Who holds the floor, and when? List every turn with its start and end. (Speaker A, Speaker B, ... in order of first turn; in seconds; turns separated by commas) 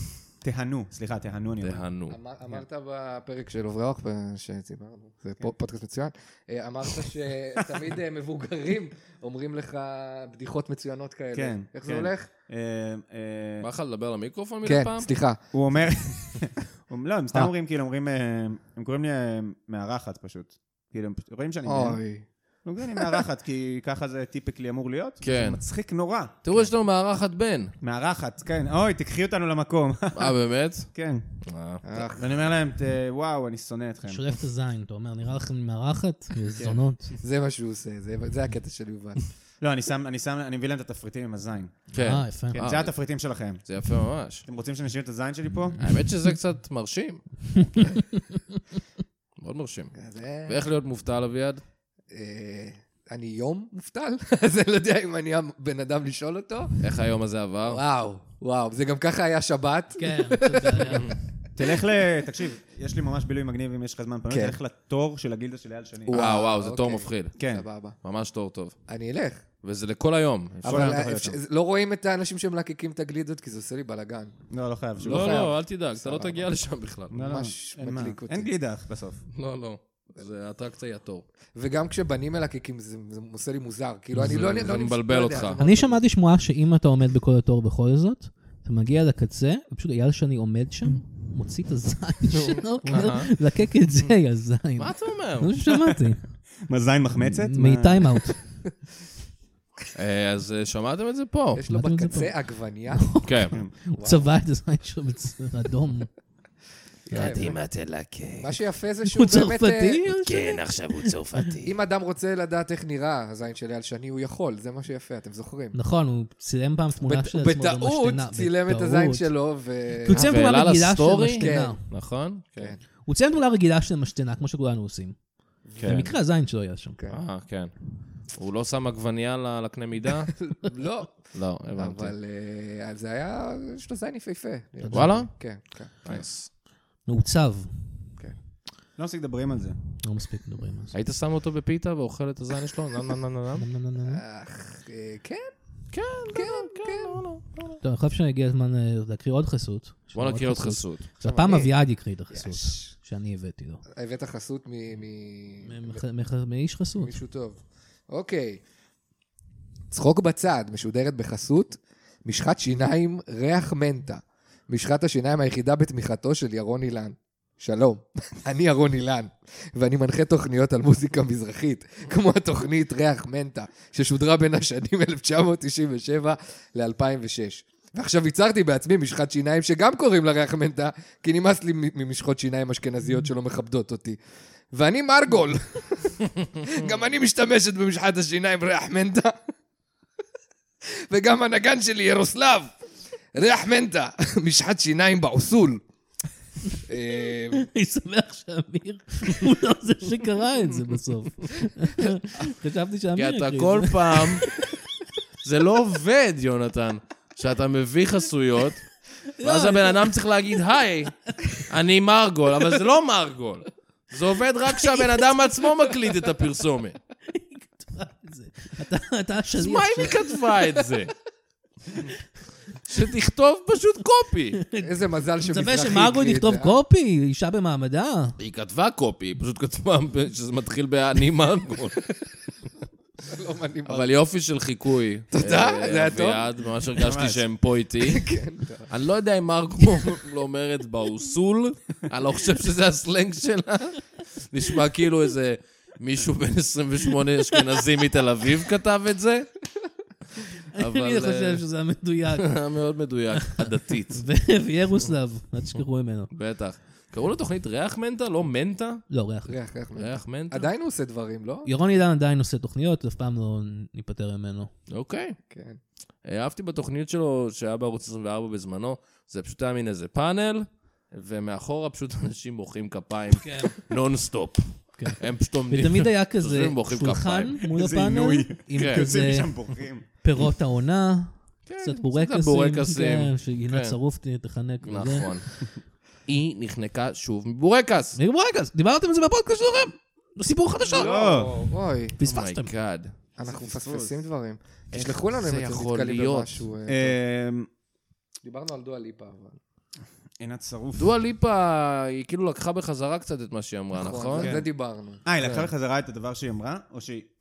Speaker A: 0.4-1.9, Speaker B: 1.6-2.2, Speaker C: 2.1-12.3, Speaker A: 11.3-13.7, Speaker B: 13.6-15.1, Speaker C: 14.6-15.4, Speaker A: 15.5-22.0, Speaker C: 21.6-22.3, Speaker A: 22.6-26.7, Speaker B: 25.2-25.6, Speaker B: 26.4-27.7, Speaker A: 27.8-30.4, Speaker B: 30.1-30.9, Speaker A: 30.9-31.2, Speaker B: 31.4-32.1, Speaker C: 31.9-32.3, Speaker A: 32.1-34.2, Speaker D: 34.0-37.1, Speaker C: 37.2-39.4, Speaker A: 39.6-41.8, Speaker B: 41.9-43.0, Speaker D: 42.0-42.6, Speaker A: 42.5-43.6, Speaker B: 43.7-44.4, Speaker A: 44.5-45.8, Speaker B: 45.8-47.8, Speaker B: 49.4-51.6, Speaker C: 50.0-50.6, Speaker C: 52.1-56.8, Speaker B: 56.8-57.8, Speaker C: 57.7-61.1, Speaker D: 60.0-61.1, Speaker A: 61.6-66.2, Speaker C: 64.3-64.6, Speaker C: 66.1-68.0, Speaker B: 66.1-67.4, Speaker A: 67.4-67.7, Speaker B: 68.0-68.8, Speaker C: 68.9-69.4, Speaker B: 69.6-71.1, Speaker A: 70.6-71.4, Speaker C: 70.6-74.3, Speaker A: 74.5-75.5, Speaker C: 75.0-76.5, Speaker B: 75.0-77.2, Speaker A: 77.1-79.2, Speaker C: 77.2-78.5, Speaker B: 79.3-81.3, Speaker C: 81.5-86.0, Speaker B: 84.2-85.6, Speaker A: 85.1-85.6, Speaker D: 85.6-96.2, Speaker B: 92.4-93.3, Speaker B: 94.8-95.7, Speaker A: 96.7-98.3, Speaker D: 97.2-98.4, Speaker B: 100.0-101.6, Speaker C: 101.5-103.3, Speaker D: 101.7-102.4, Speaker D: 103.0-106.1, Speaker B: 103.2-103.5, Speaker C: 103.9-104.3, Speaker C: 107.1-107.6, Speaker D: 107.1-107.5, Speaker B: 107.1-108.6, Speaker C: 108.4-110.0, Speaker D: 109.1-111.4, Speaker B: 110.1-111.7, Speaker C: 111.6-115.8, Speaker D: 115.7-119.3, Speaker C: 117.0-120.3, Speaker D: 120.0-121.8, Speaker B: 120.1-122.7, Speaker C: 121.3-121.8, Speaker D: 123.0-127.0, Speaker C: 125.7-126.1, Speaker B: 125.8-126.1, Speaker B: 127.1-130.6, Speaker C: 130.4-136.2, Speaker B: 131.3-132.1, Speaker D: 134.8-135.2, Speaker B: 134.9-135.4, Speaker B: 136.0-136.5, Speaker D: 137.1-138.0, Speaker A: 139.0-139.8, Speaker D: 140.0-140.9, Speaker B: 140.9-143.7, Speaker D: 143.6-144.2, Speaker C: 144.0-145.5, Speaker B: 145.9-147.8, Speaker C: 146.3-147.2, Speaker D: 147.8-153.8, Speaker B: 150.1-151.1, Speaker C: 151.2-151.8, Speaker C: 152.3-152.9, Speaker C: 153.9-156.0, Speaker D: 155.7-157.2, Speaker C: 157.0-158.6, Speaker C: 159.9-184.2, Speaker C: 184.7-189.4, Speaker C: 191.1-192.7, Speaker C: 193.3-195.8, Speaker C: 196.9-197.7, Speaker D: 197.5-204.7, Speaker B: 203.2-204.5, Speaker B: 205.4-208.9, Speaker D: 209.3-210.1, Speaker B: 209.4-217.0, Speaker D: 217.3-220.3, Speaker B: 219.6-221.1, Speaker B: 222.9-224.6, Speaker D: 224.6-228.4, Speaker C: 224.8-226.8, Speaker B: 228.4-232.1, Speaker C: 233.2-234.1, Speaker B: 233.9-238.3, Speaker C: 235.3-236.5, Speaker A: 237.0-237.4, Speaker C: 238.0-238.9, Speaker B: 238.9-249.5, Speaker D: 250.7-252.6, Speaker B: 250.8-251.6, Speaker B: 252.4-254.3, Speaker D: 253.5-256.3, Speaker B: 256.3-259.1, Speaker D: 259.1-259.6, Speaker C: 259.5-261.7, Speaker B: 260.0-260.7, Speaker D: 261.6-264.7, Speaker B: 264.9-265.4, Speaker C: 265.5-265.8, Speaker B: 266.2-277.6, Speaker D: 273.4-273.8, Speaker D: 275.0-279.6, Speaker A: 277.7-280.1, Speaker B: 278.8-279.0, Speaker D: 280.2-285.3, Speaker B: 281.7-284.0, Speaker B: 284.8-285.6, Speaker B: 286.3-288.2, Speaker D: 288.2-291.1, Speaker C: 290.9-292.2, Speaker A: 290.9-291.6, Speaker D: 292.2-292.7, Speaker B: 292.2-293.1, Speaker C: 293.4-297.2, Speaker A: 293.6-294.1, Speaker B: 294.9-296.6, Speaker A: 296.9-297.7, Speaker C: 298.4-299.6, Speaker A: 300.4-301.1, Speaker B: 301.0-304.6, Speaker C: 303.9-305.2, Speaker A: 304.4-304.7, Speaker A: 305.2-307.3, Speaker B: 305.4-305.7